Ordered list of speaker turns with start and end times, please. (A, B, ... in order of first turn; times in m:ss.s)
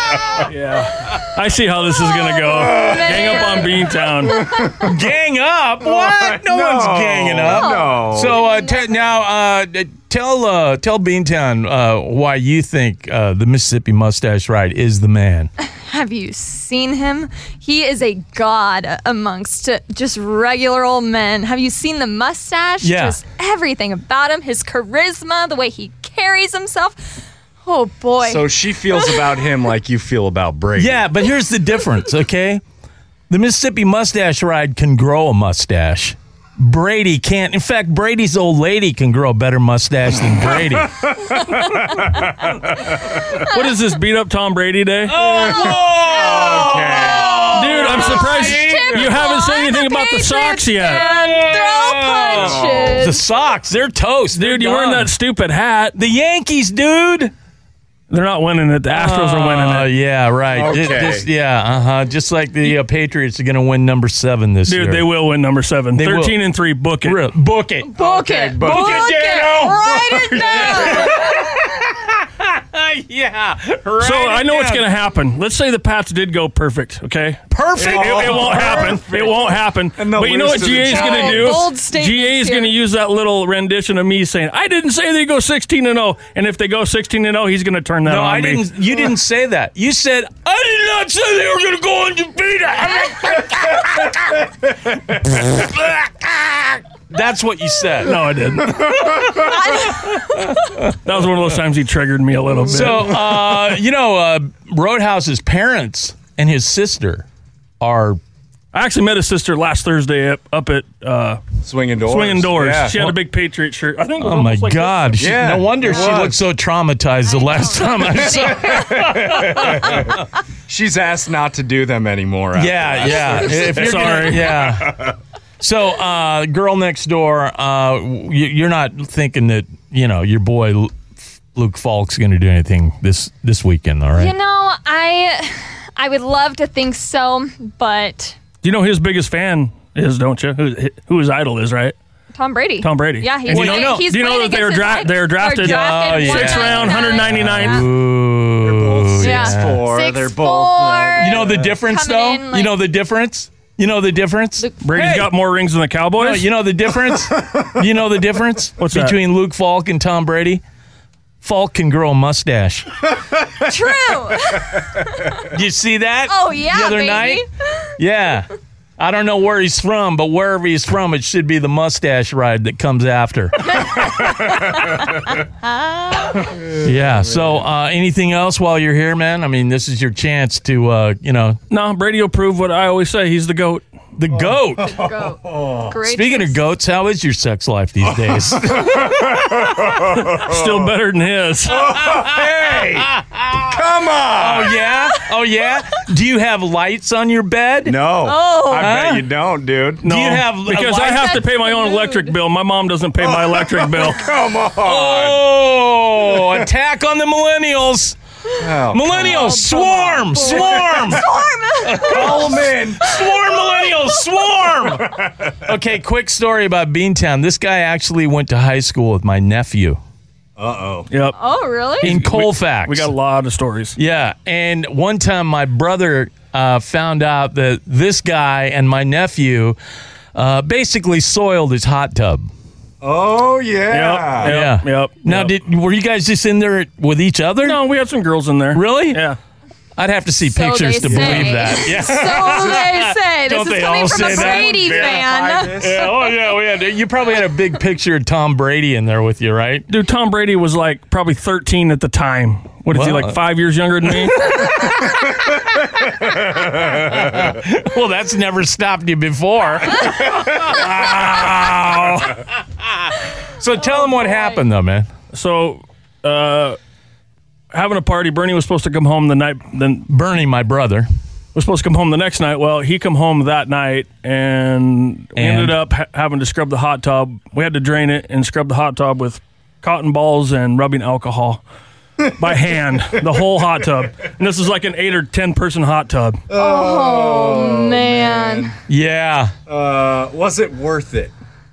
0:00.4-0:04.4 A
0:02.2-0:04.9 B
0:02.5-0:03.6 C
0:04.5-0:04.9 C
0:04.6-0:15.5 D
0:06.0-0:08.4 C
0:07.4-0:09.0 B
0:15.6-0:29.2 B
0:22.8-0:23.2 D
0:28.2-0:31.0 C
0:30.8-0:32.6 D
0:33.3-0:41.1 D
0:41.0-0:42.5 C
0:43.3-0:45.2 A
0:45.1-0:49.2 D
0:45.2-0:47.5 C
0:47.5-0:51.0 A
0:47.7-0:53.2 B
0:50.8-0:55.1 D
0:52.3-0:53.0 C
0:54.4-0:56.0 A
0:55.9-0:57.3 D
0:58.1-0:59.9 A
0:58.9-1:05.1 D
1:00.5-1:01.3 C
1:04.6-1:07.2 A
1:05.9-1:06.4 D
1:07.0-1:08.0 D
1:07.8-1:11.3 B
1:08.0-1:11.1 C
1:08.6-1:14.8 D
1:14.0-1:28.6 A
1:17.5-1:19.0 D
1:17.8-1:21.6 C
1:20.8-1:22.7 B
1:28.0-1:36.3 D
1:37.1-1:38.2 D
1:38.0-1:39.0 A
1:39.3-1:40.7 D
1:39.3-1:40.5 B
1:40.9-1:43.5 A
1:42.6-1:47.2 D
1:47.8-1:48.2 D
1:48.7-1:51.4 A
1:51.6-1:53.0 C
1:52.0-1:55.4 A
1:54.2-2:00.2 D
1:55.2-1:56.4 C
1:57.2-1:59.7 B
1:58.1-2:05.1 C
2:02.5-2:10.9 D
2:03.3-2:03.7 B
2:03.7-2:04.6 A
2:11.5-2:14.3 D
2:14.1-2:18.4 B
2:18.6-2:21.9 A
2:22.3-2:27.8 B
2:22.8-2:27.9 A
2:23.5-2:24.1 D
2:25.6-2:29.9 D
2:28.6-2:31.8 C
2:29.2-2:32.8 B
2:31.2-2:35.3 D
2:34.8-2:36.5 A
2:36.1-2:40.6 D
2:38.8-2:39.2 A
2:41.4-2:42.9 D
2:43.6-2:45.3 B
2:45.4-2:47.4 D
2:46.3-2:47.9 B
2:48.0-2:55.0 D
2:53.8-2:56.5 B
2:56.5-3:01.6 D
3:01.7-3:03.8 A
3:04.2-3:05.0 D
3:04.8-3:05.9 C
3:04.8-3:06.6 B
3:06.0-3:09.3 D
3:08.5-3:10.9 C
3:09.8-3:11.8 A
3:11.6-3:14.8 C
3:11.9-3:13.7 D
3:14.3-3:18.0 D
3:17.8-3:20.0 C
3:18.2-3:18.9 B
3:18.7-3:19.3 D
3:20.0-3:21.4 D
3:20.0-3:24.3 A
3:21.1-3:22.3 B
3:23.2-3:25.4 C
3:24.8-3:28.2 D
3:28.6-3:29.6 C
3:28.9-3:31.2 D
3:29.2-3:32.4 B
3:30.3-3:31.0 C
3:31.8-3:40.0 D
3:32.0-3:33.1 C
3:35.0-3:35.3 C
3:40.6-3:41.1 C
3:41.1-3:41.4 A
3:41.4-3:42.1 B
3:42.0-3:44.0 A
3:42.0-3:43.1 D
3:44.0-3:49.8 D
3:50.3-3:52.5 D
3:53.0-3:54.6 C
3:53.9-3:55.5 A
3:54.4-3:57.8 D
3:57.6-3:59.4 A
3:58.7-3:59.2 D
4:00.0-4:09.9 D
4:00.5-4:05.8 B
4:01.0-4:02.2 C
4:04.1-4:06.1 C
4:09.9-4:14.5 A
4:12.9-4:13.4 D
4:14.2-4:15.4 D
4:16.1-4:22.3 D
4:20.6-4:22.4 A
4:23.6-4:25.1 D
4:23.8-4:24.6 B
4:25.3-4:26.8 A
4:27.7-4:30.1 A
4:30.1-4:31.1 D
4:31.5-4:41.6 A
4:35.4-4:35.8 D
4:42.2-4:46.4 A
4:46.5-4:48.7 C
4:46.5-4:48.7 B
4:48.9-4:49.5 D
4:49.7-4:51.3 C